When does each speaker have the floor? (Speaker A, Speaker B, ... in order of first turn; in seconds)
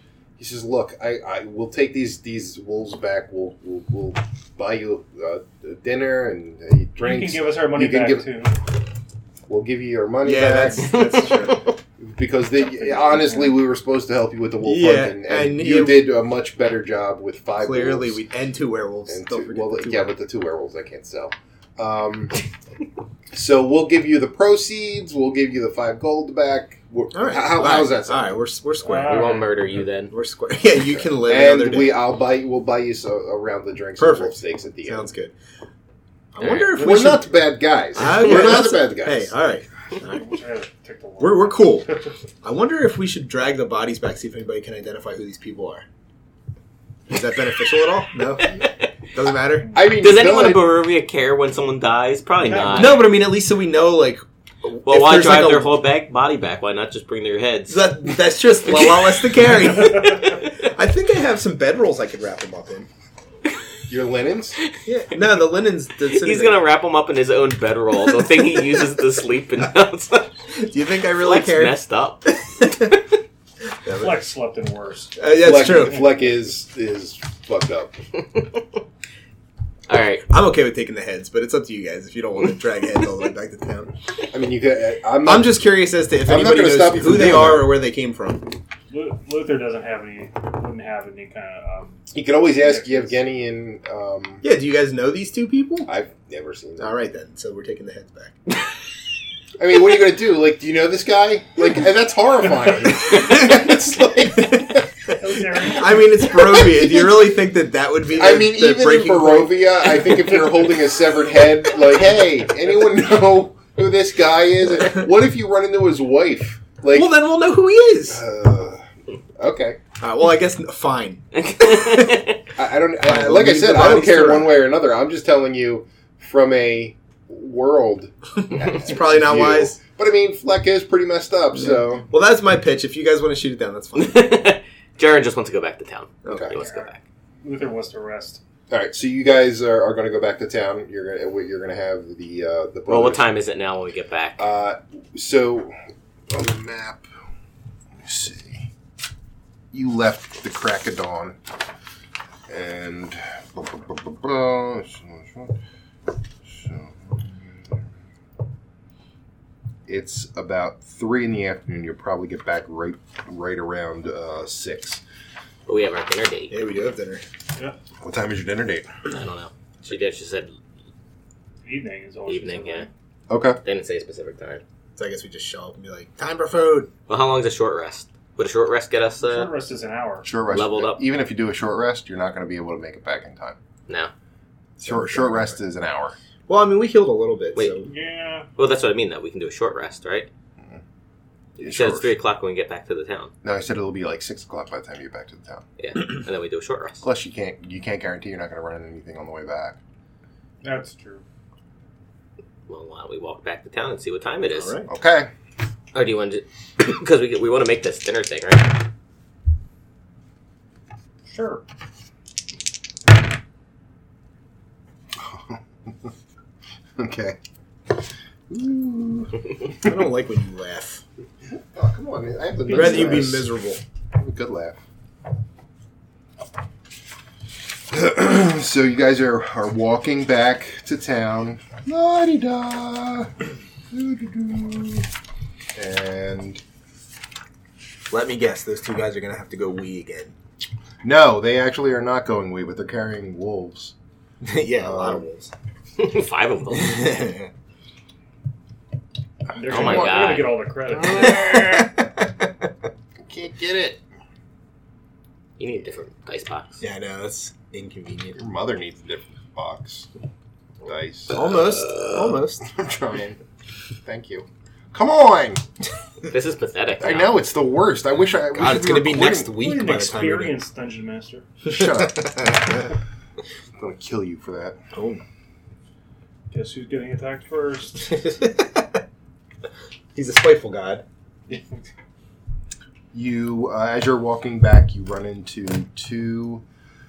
Speaker A: 0.4-8.3, 9.5-11.3, 12.0-18.2, 19.1-22.4, 23.3-28.4, 30.9-35.1, 36.8-39.3, 49.7-50.6, 63.9-64.6, 75.4-78.0, 84.3-85.7, 86.2-87.8, 92.1-94.4, 95.8-96.9, 99.6-105.1, 106.4-107.3, 108.2-117.1, 118.0-118.8, 119.4-119.8, 122.5-132.1, 136.3-136.6, 138.7-143.2, 144.4-145.7, 146.3-147.0, 148.0-148.7, 149.7-151.4, 152.5-155.6, 156.4-157.8, 159.9-165.0, 168.0-168.9, 173.3-173.6, 180.2-183.6, 184.8-186.1, 191.6-192.1, 193.4-195.6, 197.0-199.8, 204.9-205.3, 215.2-216.1, 217.0-217.4, 218.5-219.9, 221.7-223.5, 224.1-224.8, 227.9-233.3, 233.9-235.1, 235.7-236.6, 241.0-243.9, 244.8-245.2, 249.5-252.0, 253.2-254.0, 258.4-260.1, 260.8-261.5, 262.6-263.4, 264.0-265.6, 267.0-269.5, 271.6-272.8, 273.8-274.8, 283.1-286.6
Speaker B: 7.0-8.6, 13.1-13.5, 28.8-29.8, 36.8-37.2, 40.0-42.2, 52.4-53.0, 59.9-60.2, 74.0-75.2, 88.9-92.0, 92.6-93.2, 105.2-106.3, 136.6-136.9, 137.4-138.4, 171.6-172.9, 179.2-180.3, 187.8-188.5, 200.6-201.2, 211.2-211.6, 222.7-223.3, 249.6-251.4, 269.5-271.4, 276.5-278.1, 281.5-281.8
Speaker C: 10.2-11.7, 14.6-16.1, 17.6-20.1, 27.1-29.4, 30.1-32.0, 34.0-35.3, 36.3-37.2, 37.9-40.1, 41.2-41.9, 42.4-45.8, 47.1-49.8, 52.6-55.8, 57.7-62.9, 64.8-66.6, 70.5-73.0, 73.8-74.2, 75.2-76.1, 80.3-83.9, 85.2-88.6, 94.4-95.9, 96.8-98.4, 103.2-103.7, 104.4-104.7, 105.6-110.2, 116.9-118.2, 120.0-122.4, 123.0-124.6, 128.6-129.8, 131.5-134.3, 136.2-136.6, 166.5-167.2, 174.9-176.9, 184.8-185.6, 186.5-187.9, 204.5-204.9, 219.8-221.0, 222.7-223.8, 238.1-240.3, 244.4-245.5, 246.7-247.5, 251.0-252.5, 256.8-258.4, 261.3-262.6, 268.5-270.6, 271.6-272.9, 274.9-275.2, 278.0-279.0, 280.1-281.0
Speaker D: 29.0-30.1, 36.4-36.7, 49.9-53.0, 54.8-57.9, 66.1-70.3, 71.2-72.7, 78.2-78.8, 79.9-80.2, 121.3-122.4, 133.9-137.0, 142.9-144.4, 165.7-166.6, 169.1-170.5, 172.3-172.9, 173.6-174.6, 177.1-179.5, 180.5-181.0, 188.6-190.3, 191.6-193.3, 195.8-197.0, 202.7-204.7, 205.9-208.8, 246.0-247.1, 249.6-250.6, 255.6-256.8, 266.2-267.4